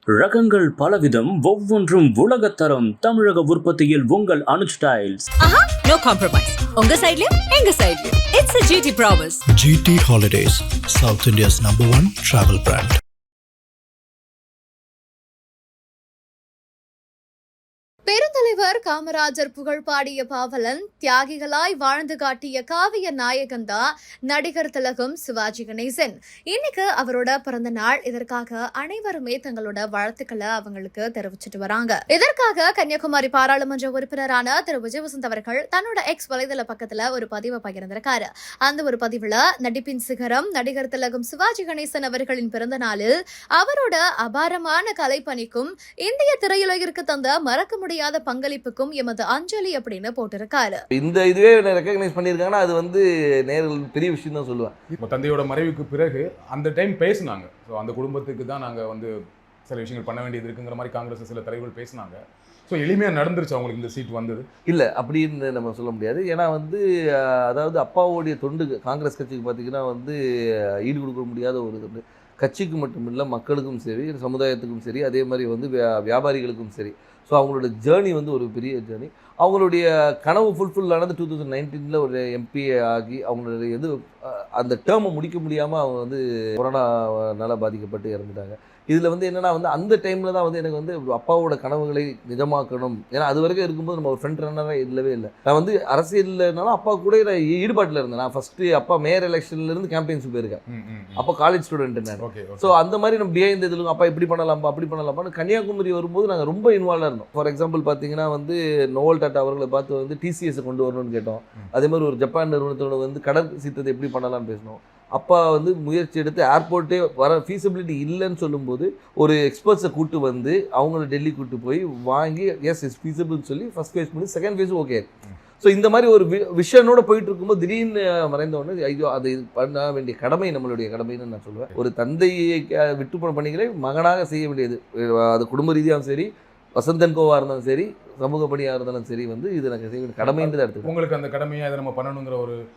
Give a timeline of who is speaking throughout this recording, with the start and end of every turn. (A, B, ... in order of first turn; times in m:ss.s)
0:00.1-0:05.2 A
0:05.4-0:09.4 B
0:09.5-0:13.0 C
0:18.0-0:50.8 D
0:50.9-0:54.7 E
0:55.0-0:59.1 F
0:59.7-1:04.4 F
1:04.7-1:40.6 E
1:40.7-1:41.2 F
1:41.2-2:05.0 E
1:42.2-1:42.7 F
2:05.6-2:20.9 E
2:20.2-2:22.6 F